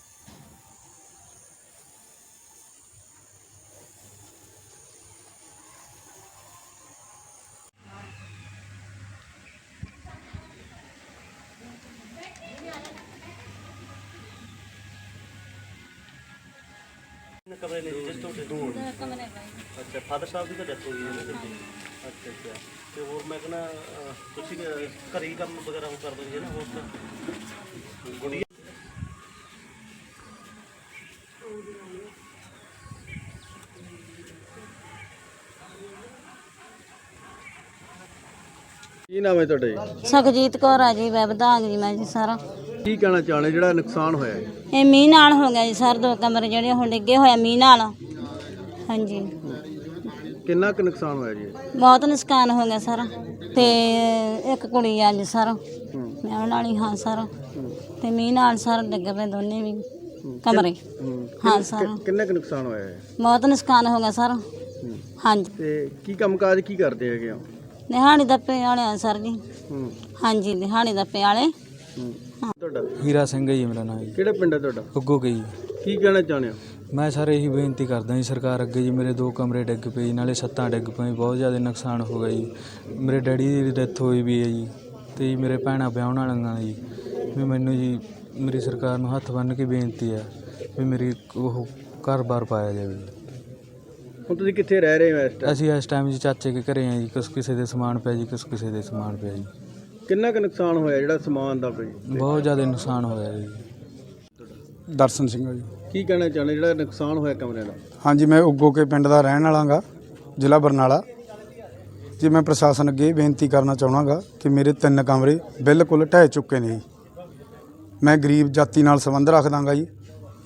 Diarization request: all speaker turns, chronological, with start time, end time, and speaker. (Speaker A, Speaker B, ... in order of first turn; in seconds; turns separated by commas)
Speaker A: 17.5-19.1, Speaker B: 18.3-19.6, Speaker A: 19.8-26.9, Speaker B: 21.3-21.7, Speaker A: 28.2-28.4, Speaker C: 39.1-39.9, Speaker B: 40.0-42.4, Speaker C: 42.8-44.5, Speaker B: 44.7-47.9, Speaker B: 48.9-49.3, Speaker C: 50.4-51.5, Speaker B: 51.7-55.6, Speaker B: 56.2-57.3, Speaker B: 58.0-59.8, Speaker C: 60.2-63.0, Speaker B: 60.4-60.8, Speaker B: 61.4-62.0, Speaker B: 63.2-64.4, Speaker B: 65.2-65.5, Speaker C: 65.6-67.4, Speaker B: 67.9-69.4, Speaker C: 69.7-69.9, Speaker B: 70.2-71.5, Speaker C: 72.0-72.9, Speaker D: 73.0-74.2, Speaker C: 74.2-74.9, Speaker D: 74.9-75.5, Speaker C: 75.8-76.6, Speaker D: 76.9-86.8, Speaker D: 87.3-93.1, Speaker C: 94.3-95.6, Speaker D: 95.4-99.5, Speaker C: 100.1-102.3, Speaker D: 102.1-103.6, Speaker E: 104.9-105.7, Speaker C: 105.9-107.8, Speaker E: 108.0-109.8, Speaker E: 110.4-111.0, Speaker E: 112.2-116.8, Speaker E: 118.0-119.9